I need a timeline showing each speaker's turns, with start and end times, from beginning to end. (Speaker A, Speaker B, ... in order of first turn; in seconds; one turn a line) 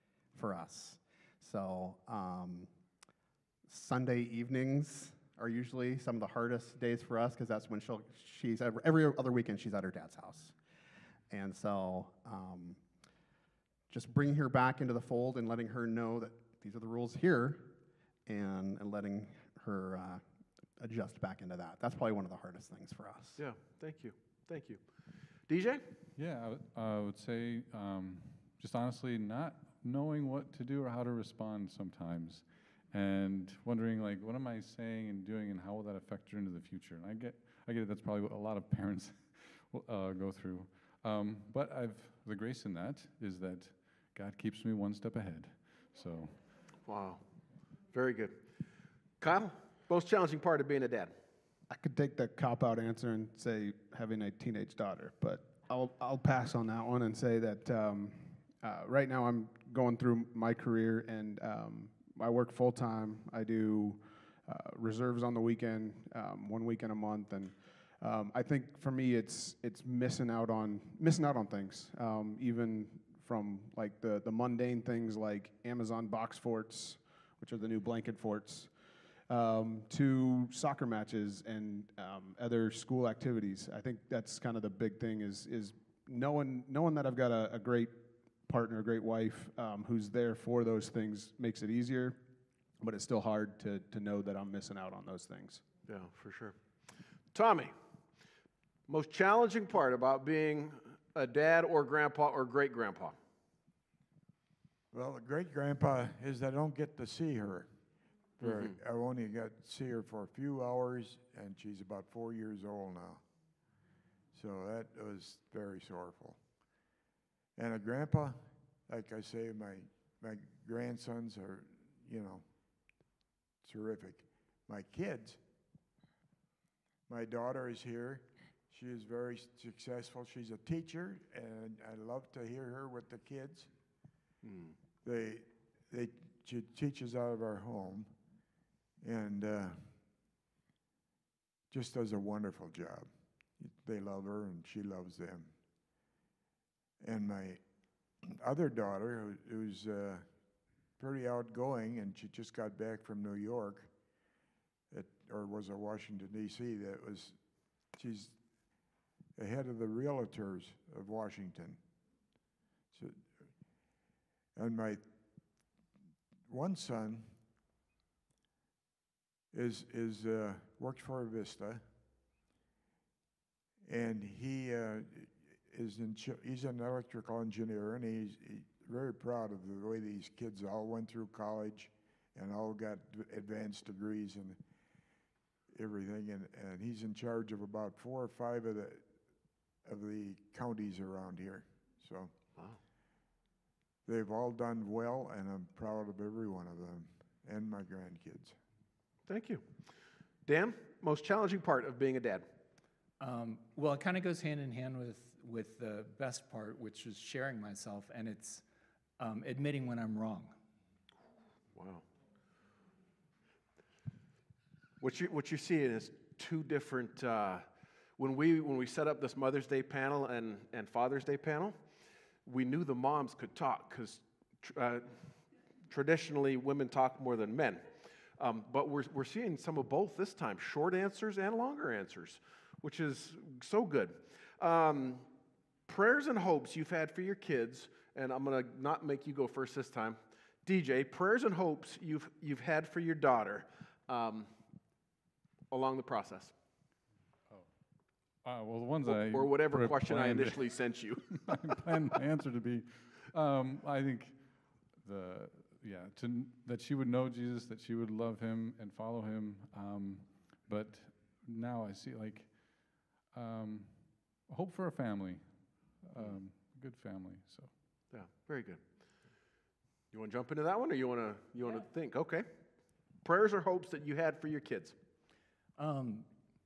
Speaker A: 0.3-2.7
Speaker A: 3.7-10.5
Speaker A: 11.3-12.8
Speaker A: 13.9-17.7
Speaker A: 18.2-20.2
Speaker A: 20.8-23.4
Speaker B: 23.4-24.8
Speaker B: 25.5-25.9
Speaker C: 26.1-46.4
Speaker B: 46.9-47.2
Speaker B: 47.9-48.4
Speaker B: 49.2-51.1
Speaker D: 51.7-78.7
Speaker D: 79.3-92.2
Speaker D: 92.8-95.6
Speaker B: 95.9-96.6
Speaker B: 97.3-97.7
Speaker B: 98.9-103.2
Speaker E: 104.9-107.7
Speaker E: 108.4-113.2
Speaker B: 108.4-108.7
Speaker E: 114.3-116.4
Speaker E: 117.5-122.4
Speaker E: 123.6-125.4
Speaker E: 127.1-133.7
Speaker B: 134.4-134.8
Speaker E: 135.0-138.1
Speaker E: 139.0-139.9
Speaker E: 141.7-145.5
Speaker E: 147.0-147.6
Speaker E: 148.2-150.3
Speaker E: 151.0-153.9
Speaker E: 154.9-157.4
Speaker E: 157.9-158.4
Speaker E: 159.3-161.8
Speaker E: 162.9-163.3
Speaker E: 164.6-165.0
Speaker E: 166.5-167.3
Speaker E: 169.5-171.8
Speaker E: 173.8-184.6
Speaker E: 185.7-189.1
Speaker E: 189.8-192.3
Speaker E: 194.1-198.6
Speaker B: 199.3-199.7
Speaker B: 200.4-202.5
Speaker F: 203.2-208.6
Speaker F: 209.2-210.5
Speaker B: 211.7-212.0
Speaker B: 215.0-217.7
Speaker B: 218.2-221.8
Speaker B: 222.4-225.2
Speaker B: 225.9-235.2
Speaker B: 235.9-244.5
Speaker B: 245.7-246.5
Speaker C: 248.4-250.8
Speaker B: 249.1-251.6
Speaker C: 251.3-254.4
Speaker C: 255.0-267.7
Speaker B: 268.1-268.8
Speaker B: 270.1-272.5
Speaker B: 273.2-274.9
Speaker F: 275.8-276.3